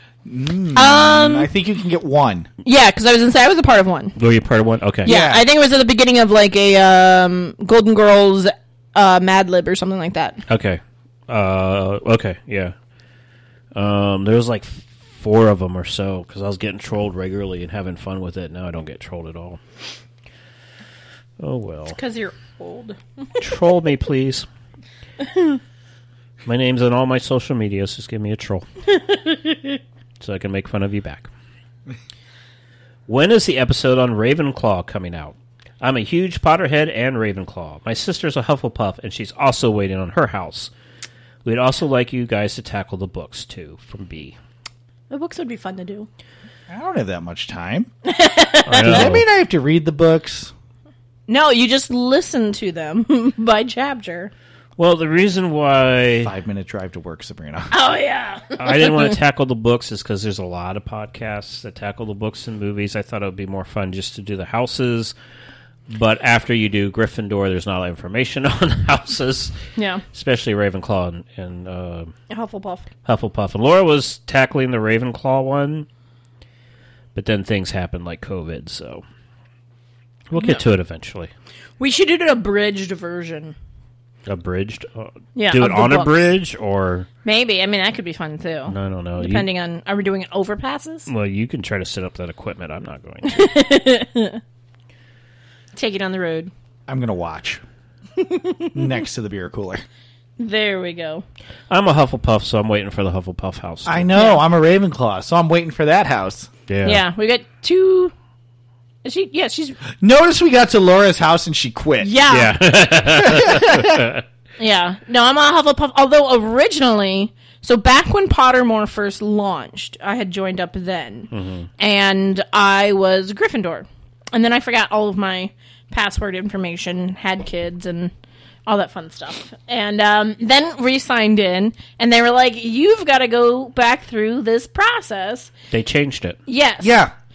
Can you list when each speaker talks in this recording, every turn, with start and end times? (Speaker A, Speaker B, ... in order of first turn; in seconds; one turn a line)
Speaker A: 0.2-2.5
Speaker B: 0.7-1.5
Speaker B: 2.6-4.2
Speaker C: 4.2-5.1
Speaker A: 5.0-5.5
Speaker B: 5.0-10.4
Speaker C: 10.5-12.7
Speaker C: 13.7-19.6
Speaker C: 21.4-22.0
Speaker B: 21.9-23.0
Speaker C: 23.4-24.4
Speaker B: 25.3-25.6
Speaker C: 26.4-28.6
Speaker B: 29.1-29.5
Speaker C: 30.2-31.3
Speaker C: 33.1-40.7
Speaker C: 41.4-44.4
Speaker B: 45.1-46.1
Speaker A: 46.7-47.9
Speaker B: 48.0-49.1
Speaker C: 48.6-49.2
Speaker A: 48.8-50.5
Speaker B: 51.3-54.3
Speaker C: 54.8-56.3
Speaker A: 56.2-57.7
Speaker B: 57.7-59.1
Speaker C: 58.6-65.1
Speaker C: 65.9-69.5
Speaker B: 69.8-70.0
Speaker C: 70.1-72.1
Speaker B: 72.3-72.9
Speaker C: 73.0-75.8
Speaker C: 77.1-79.0
Speaker C: 80.3-81.3
Speaker B: 80.3-80.6
Speaker B: 81.8-83.5
Speaker C: 84.2-87.1
Speaker B: 85.3-86.3
Speaker B: 87.2-91.1
Speaker C: 88.7-89.5
Speaker C: 91.1-93.4
Speaker B: 93.2-94.4
Speaker B: 95.7-96.5
Speaker A: 96.9-97.6
Speaker B: 98.2-98.9
Speaker A: 98.7-99.8
Speaker B: 100.4-101.2
Speaker C: 101.7-104.1
Speaker A: 103.8-106.5
Speaker B: 104.1-104.4
Speaker C: 106.7-107.0
Speaker B: 106.8-108.1
Speaker B: 109.0-109.8
Speaker A: 110.0-112.1
Speaker B: 112.0-112.5
Speaker C: 112.3-114.2
Speaker A: 113.2-114.0
Speaker B: 114.6-128.1
Speaker C: 121.3-121.7
Speaker B: 128.7-135.5
Speaker C: 135.7-136.4
Speaker B: 136.5-136.9
Speaker A: 136.8-137.1